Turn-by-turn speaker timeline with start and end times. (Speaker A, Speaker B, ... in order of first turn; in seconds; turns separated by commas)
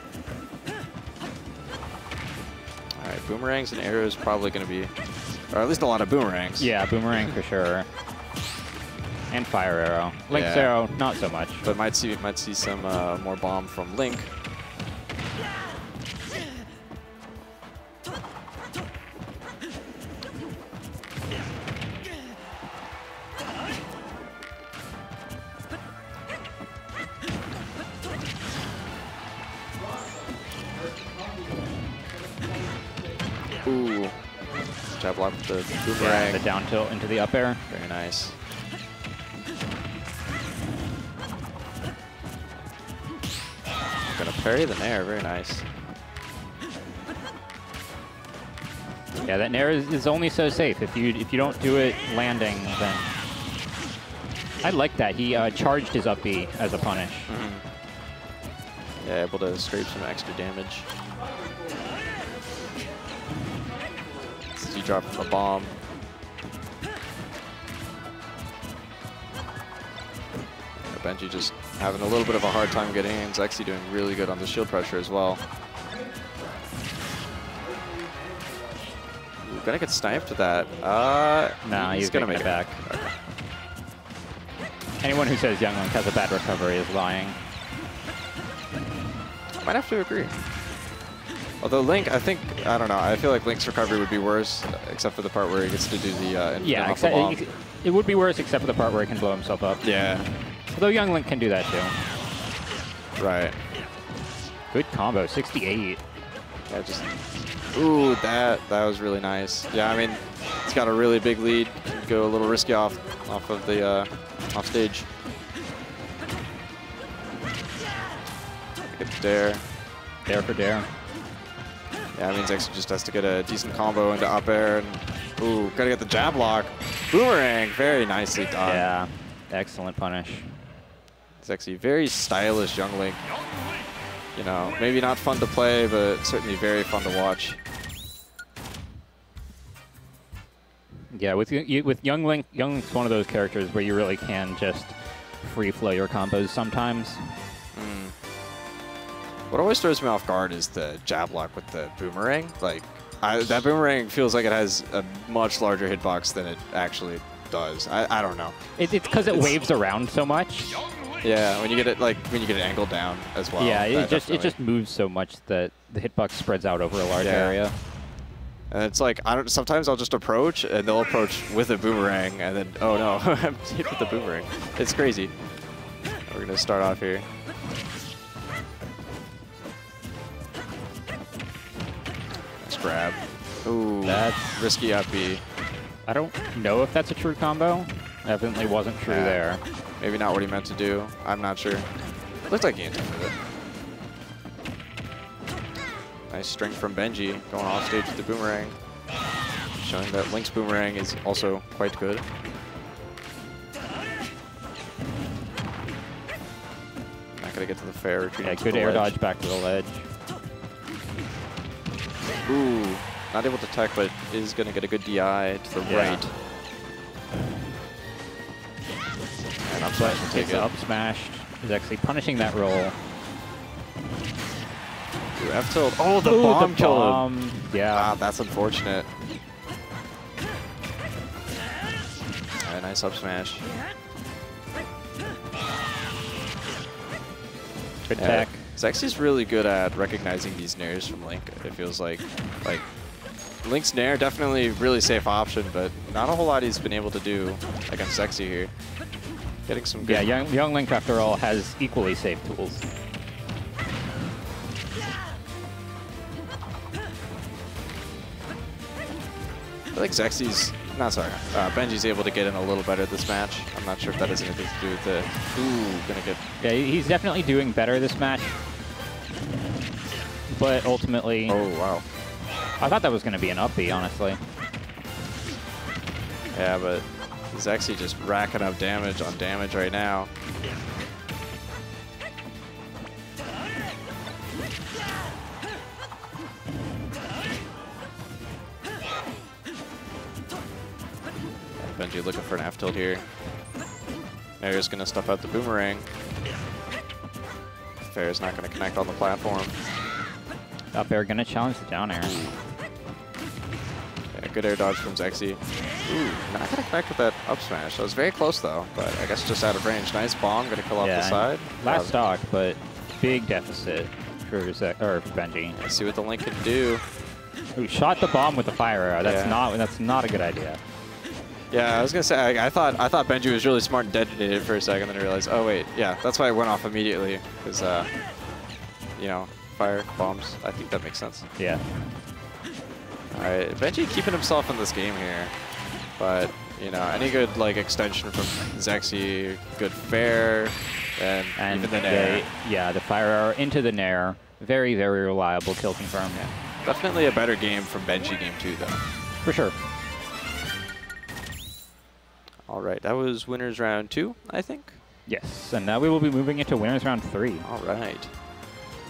Speaker A: 3.0-5.0, Speaker A: 5.5-7.3, Speaker B: 6.6-7.9, Speaker B: 9.3-11.7, Speaker A: 10.3-10.8, Speaker A: 11.6-14.3, Speaker A: 33.6-34.2, Speaker A: 34.9-36.5, Speaker B: 36.0-37.6, Speaker A: 37.7-38.4, Speaker A: 44.0-45.7, Speaker B: 49.2-53.1, Speaker B: 54.6-57.3, Speaker A: 57.3-57.6, Speaker A: 59.0-60.9, Speaker A: 64.5-65.8, Speaker A: 70.8-75.4, Speaker A: 79.4-83.2, Speaker B: 81.6-82.8, Speaker B: 85.0-87.4, Speaker A: 89.6-90.5, Speaker A: 91.6-97.4, Speaker B: 96.6-99.9, Speaker A: 99.8-100.3, Speaker B: 100.7-102.0, Speaker A: 103.2-103.6, Speaker B: 104.7-106.0, Speaker A: 106.7-107.1, Speaker A: 107.7-115.1, Speaker A: 118.8-119.7, Speaker B: 120.2-120.9, Speaker A: 122.1-128.9, Speaker B: 128.6-130.6, Speaker A: 131.4-133.3, Speaker A: 134.3-137.6, Speaker B: 141.1-147.3, Speaker A: 147.7-148.1, Speaker A: 149.5-158.6, Speaker B: 158.8-160.8, Speaker A: 159.2-159.6, Speaker A: 161.2-164.6, Speaker B: 163.6-167.8, Speaker A: 167.2-167.6, Speaker A: 168.7-175.4, Speaker A: 176.3-177.3, Speaker A: 182.6-185.4, Speaker B: 184.1-184.7, Speaker B: 186.1-189.6, Speaker A: 189.1-189.5, Speaker A: 190.0-193.4, Speaker A: 196.3-198.8, Speaker A: 199.8-202.3, Speaker A: 207.3-209.2, Speaker B: 208.4-210.1, Speaker A: 212.5-216.4, Speaker B: 215.8-216.3, Speaker A: 219.6-220.7, Speaker B: 219.9-223.0, Speaker A: 225.3-227.3, Speaker B: 226.2-228.2, Speaker A: 227.9-229.1, Speaker A: 232.6-233.7, Speaker B: 238.1-238.7, Speaker A: 238.2-243.0, Speaker A: 243.6-248.7, Speaker A: 249.7-250.3, Speaker B: 250.0-252.9, Speaker A: 259.9-266.4, Speaker B: 266.6-268.6, Speaker B: 270.5-271.6, Speaker A: 271.5-272.1, Speaker B: 272.8-274.4, Speaker A: 276.5-280.3, Speaker A: 291.8-293.3, Speaker A: 294.6-296.1, Speaker A: 298.0-299.8, Speaker B: 300.9-302.4, Speaker A: 302.2-302.6, Speaker A: 304.3-312.2, Speaker B: 311.0-315.8, Speaker A: 315.7-317.0, Speaker B: 317.8-320.8, Speaker A: 319.2-319.6, Speaker A: 321.7-328.3, Speaker A: 329.1-331.5, Speaker B: 331.6-331.9, Speaker A: 333.3-342.5, Speaker B: 341.6-346.5, Speaker A: 346.3-349.0, Speaker B: 349.4-349.8, Speaker A: 352.7-355.0, Speaker B: 355.3-357.7, Speaker A: 357.6-358.4